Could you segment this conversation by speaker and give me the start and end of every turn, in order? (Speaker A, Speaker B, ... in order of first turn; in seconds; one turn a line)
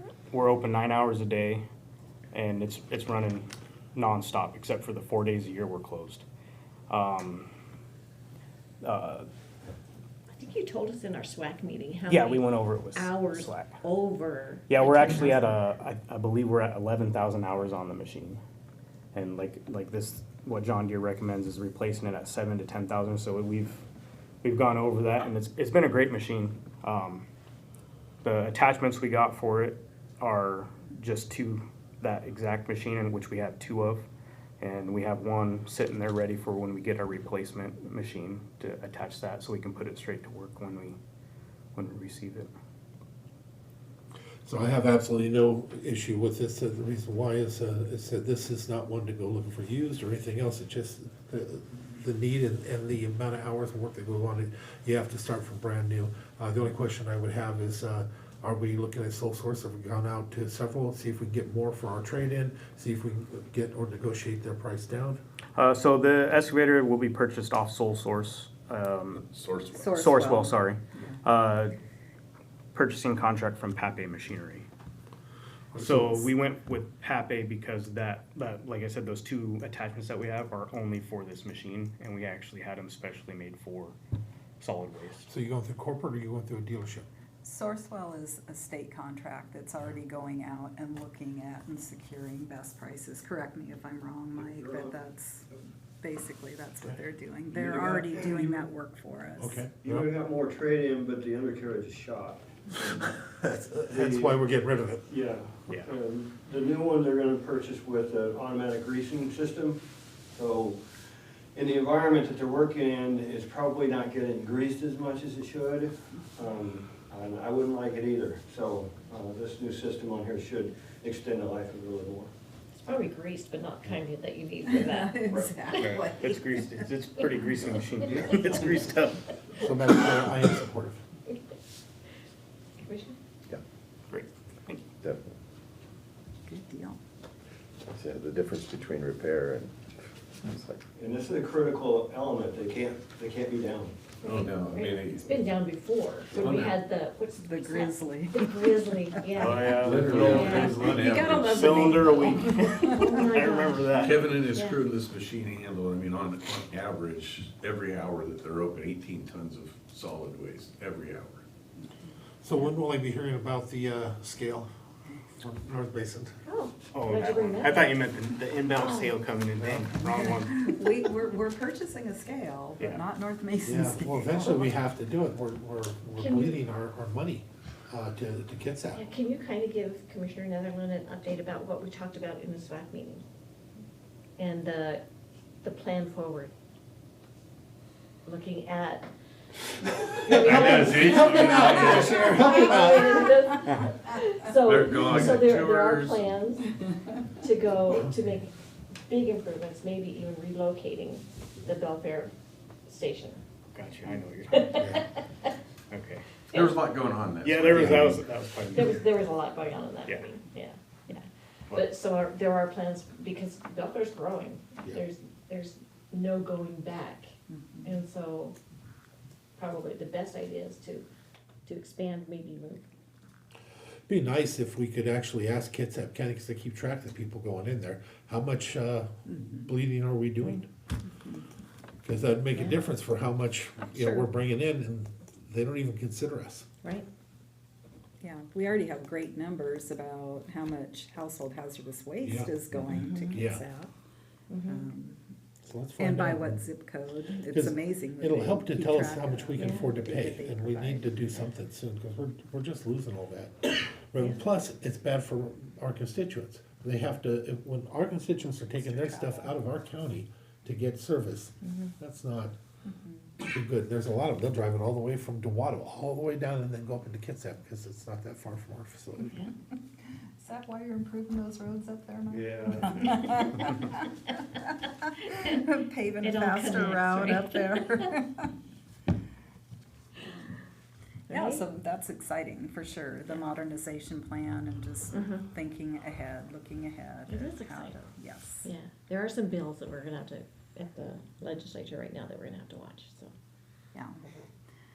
Speaker A: 0.3-1.6
Speaker A: 2.3-6.2
Speaker A: 6.9-7.5
Speaker A: 8.8-9.3
Speaker B: 10.3-15.6
Speaker A: 12.1-13.8
Speaker A: 14.7-18.4
Speaker A: 19.1-23.8
Speaker A: 24.4-27.2
Speaker A: 28.2-34.0
Speaker A: 34.6-41.0
Speaker A: 41.7-42.5
Speaker C: 44.4-65.2
Speaker A: 65.5-69.2
Speaker D: 69.1-69.9
Speaker E: 69.7-71.1
Speaker A: 69.8-71.7
Speaker A: 72.7-74.7
Speaker C: 75.7-76.3
Speaker A: 75.8-84.0
Speaker A: 84.6-85.3
Speaker C: 85.2-87.0
Speaker E: 87.4-99.6
Speaker F: 94.4-95.0
Speaker F: 97.5-98.5
Speaker C: 99.4-100.1
Speaker F: 99.8-103.1
Speaker C: 103.0-105.0
Speaker F: 103.9-104.4
Speaker F: 105.1-109.8
Speaker F: 110.3-110.8
Speaker F: 111.5-122.3
Speaker B: 122.8-125.8
Speaker E: 124.6-126.9
Speaker A: 125.8-129.2
Speaker C: 129.6-131.0
Speaker B: 132.8-133.2
Speaker A: 134.1-134.8
Speaker D: 135.0-135.3
Speaker E: 136.5-137.0
Speaker D: 137.9-139.7
Speaker D: 140.4-140.8
Speaker F: 140.9-144.0
Speaker B: 144.2-151.0
Speaker D: 144.2-145.4
Speaker D: 146.3-146.8
Speaker E: 147.4-148.9
Speaker A: 149.4-154.2
Speaker D: 149.6-151.9
Speaker E: 150.3-153.2
Speaker B: 152.8-154.8
Speaker D: 153.9-161.4
Speaker C: 162.4-164.7
Speaker C: 165.3-166.4
Speaker B: 166.4-168.0
Speaker A: 166.9-170.8
Speaker B: 168.7-169.1
Speaker E: 170.0-174.8
Speaker C: 173.6-179.0
Speaker B: 176.2-176.6
Speaker B: 178.9-183.2
Speaker B: 184.4-185.0
Speaker B: 185.6-186.5
Speaker B: 188.2-189.1
Speaker B: 189.8-196.7
Speaker D: 190.2-192.9
Speaker C: 190.5-193.0
Speaker D: 194.6-196.3
Speaker B: 197.4-198.5
Speaker B: 199.1-202.3
Speaker B: 202.9-203.4
Speaker A: 203.7-205.0
Speaker B: 204.5-205.5
Speaker A: 205.9-206.4
Speaker D: 206.5-208.3
Speaker A: 207.4-209.0
Speaker C: 207.7-208.0
Speaker B: 208.7-217.3
Speaker E: 217.5-217.9
Speaker B: 217.8-218.6
Speaker B: 219.6-221.0
Speaker B: 221.7-222.8
Speaker C: 224.1-230.7
Speaker E: 231.1-231.5
Speaker C: 232.0-236.7
Speaker B: 232.5-232.8
Speaker E: 233.8-234.3
Speaker E: 238.2-243.9
Speaker C: 242.2-242.6
Speaker B: 242.9-243.4
Speaker C: 243.3-243.6
Speaker B: 244.5-244.8
Speaker E: 244.7-245.2
Speaker C: 245.6-246.6
Speaker E: 246.0-251.5
Speaker C: 247.5-262.6
Speaker B: 249.6-249.8
Speaker E: 258.7-259.6
Speaker B: 261.6-261.9
Speaker C: 263.4-269.4
Speaker B: 269.2-269.5
Speaker E: 270.4-278.5
Speaker F: 272.3-273.2
Speaker B: 276.2-277.9
Speaker B: 281.3-281.6
Speaker E: 281.3-288.7
Speaker B: 285.1-285.4
Speaker B: 287.3-287.9
Speaker B: 288.6-293.3
Speaker E: 293.9-294.5